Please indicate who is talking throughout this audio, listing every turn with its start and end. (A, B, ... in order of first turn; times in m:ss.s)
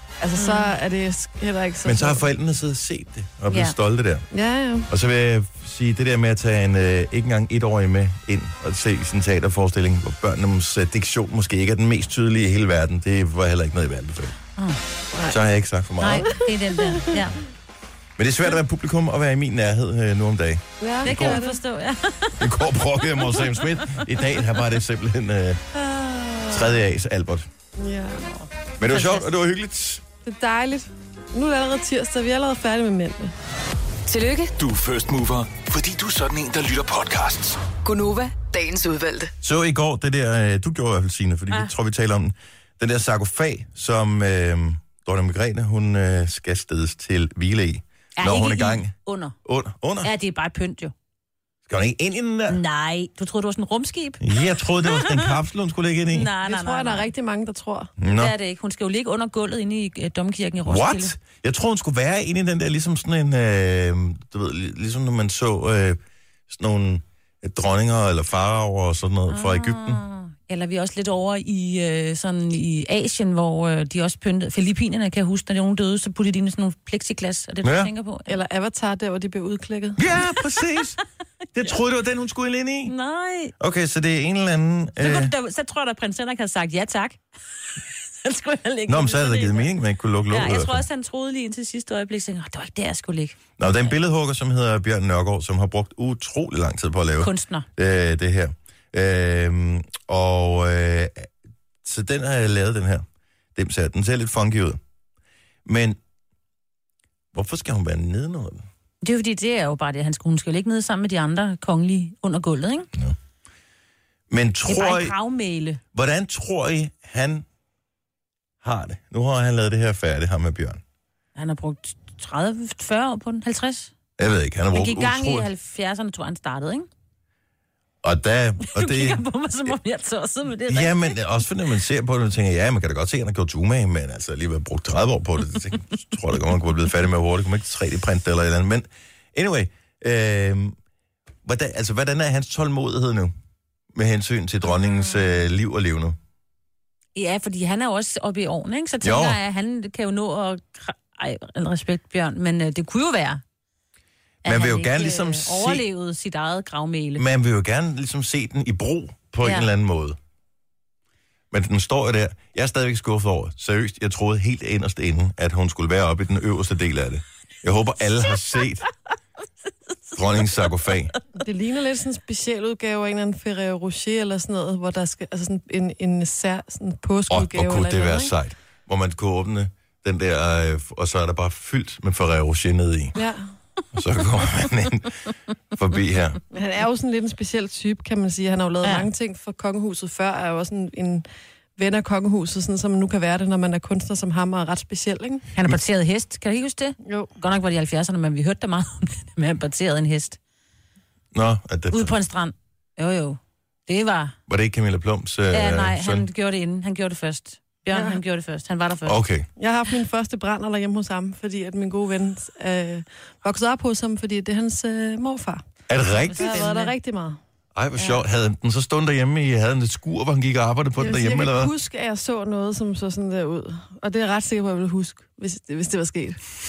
0:00.2-0:02.3 A
0:00.4-0:00.7 B
0:01.8-0:04.2 C
0:03.5-0:03.8 B
0:04.3-0:04.9 A
0:04.9-0:14.4 C
0:15.3-0:16.3 C
0:16.0-0:17.4 B
0:18.2-0:21.4 C
0:20.8-0:21.6 A
0:21.0-0:22.6 B
0:22.4-0:25.6 C
0:23.2-0:24.1 B
0:25.8-0:26.8 B
0:26.5-0:27.5 C
0:27.8-0:28.3 A
0:28.3-0:29.3 B
0:28.8-0:30.0 C
0:30.2-0:33.3 A
0:34.1-0:34.5 D
0:34.6-0:37.6 E
0:37.8-0:39.3 D
0:39.4-0:48.9 C
0:48.2-0:49.4 B
0:49.4-0:50.1 C
0:50.0-0:50.9 B
0:51.7-0:52.6 C
0:52.5-0:55.3 B
0:54.2-0:56.3 C
0:56.1-0:57.1 B
0:56.4-0:57.9 A
0:58.0-0:58.3 C
0:58.2-1:01.2 B
1:00.6-1:10.0 C
1:09.3-1:18.4 B
1:17.6-1:17.9 C
1:18.3-1:20.0 A
1:20.0-1:21.0 C
1:21.6-1:23.0 C
1:22.9-1:23.5 B
1:23.6-1:25.3 C
1:25.0-1:27.2 B
1:28.2-1:29.7 B
1:28.9-1:30.8 C
1:30.3-1:33.4 B
1:33.6-1:41.3 C
1:37.2-1:37.7 B
1:41.8-1:44.8 C
1:45.7-1:46.0 C
1:47.3-1:48.7 C
1:49.0-1:52.9 B
1:54.3-1:55.2 C
1:54.6-1:55.8 B
1:55.9-1:57.5 C
1:58.6-2:00.8 C
2:01.4-2:03.9 B
2:04.2-2:05.5 C
2:04.7-2:06.9 B
2:08.0-2:09.2 C
2:08.6-2:11.2 B
2:10.7-2:20.8 C
2:21.4-2:23.3 C
2:23.9-2:26.2 C
2:24.8-2:25.2 B
2:27.2-2:33.4 B
2:29.0-2:29.4 C
2:34.4-2:35.8 C
2:34.4-2:37.2 B
2:37.2-2:40.2 C
2:39.4-2:39.7 B
2:41.5-2:48.9 C
2:50.2-2:51.2 C
2:51.4-2:58.3 A
2:57.3-3:03.2 C
3:03.2-3:03.4 A
3:03.9-3:05.1 C
3:05.7-3:06.4 C
3:06.5-3:11.3 A
3:11.8-3:15.4 A
3:15.5-3:20.4 B
3:17.0-3:17.3 A
3:21.3-3:22.1 C
3:21.9-3:24.3 B
3:24.5-3:26.3 C
3:25.5-3:29.2 B
3:27.9-3:28.2 A
3:29.1-3:29.5 C
3:29.6-3:35.6 A
3:35.9-3:36.5 C
3:36.3-3:36.9 B
3:36.4-3:37.4 A
3:37.8-3:41.7 C
3:41.0-3:46.4 A